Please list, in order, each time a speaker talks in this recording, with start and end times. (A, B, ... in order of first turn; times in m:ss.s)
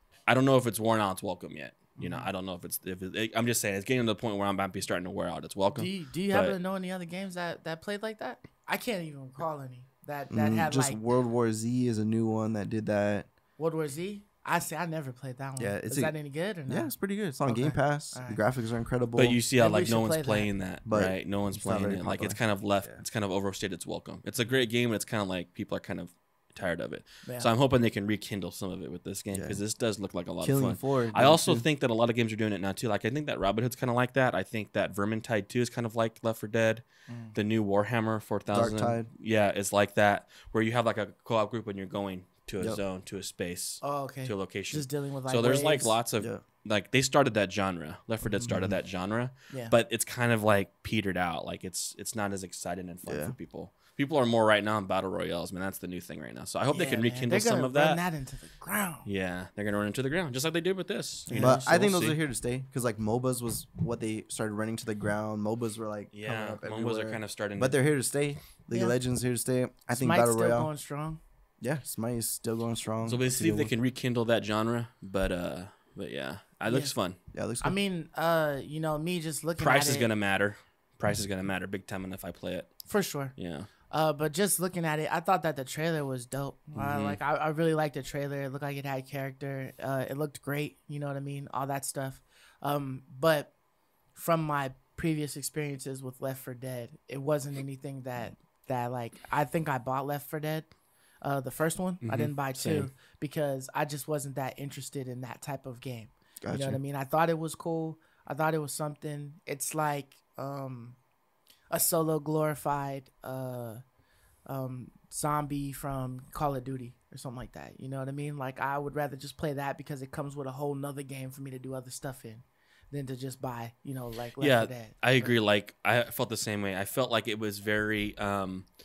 0:00.3-0:06.6 A
0:02.0-0:02.3 B
0:05.7-0:11.0 B
0:10.3-0:13.3 C
0:13.6-0:16.9 B
0:15.6-0:16.2 C
0:16.7-0:19.4 C
0:17.4-0:18.4 B
0:19.2-0:36.8 A
0:19.6-0:20.5 B
0:20.8-0:23.0 C
0:29.3-0:29.6 C
0:30.4-0:31.6 C
0:37.1-0:37.3 B
0:37.3-0:58.0 A
0:38.5-0:39.1 C
0:43.8-0:46.0 B
0:48.2-0:48.6 B
0:48.5-0:48.7 C
0:53.0-0:53.3 C
0:56.7-0:59.1 B
0:59.0-1:02.2 A
1:01.3-1:01.8 B
1:01.4-1:10.7 C
1:06.1-1:07.8 A
1:09.9-1:11.2 B
1:11.6-1:13.7 C
1:13.0-1:17.2 A
1:16.7-1:16.9 B
1:17.3-1:17.8 C
1:17.6-1:20.1 B
1:19.6-1:23.7 A
1:22.9-1:23.3 B
1:23.9-1:33.5 B
1:26.8-1:27.2 A
1:34.1-1:40.7 B
1:41.2-1:51.0 B
1:42.0-1:42.9 A
1:46.4-1:46.8 C
1:51.7-1:53.8 B
1:54.5-2:05.4 B
2:04.4-2:08.6 A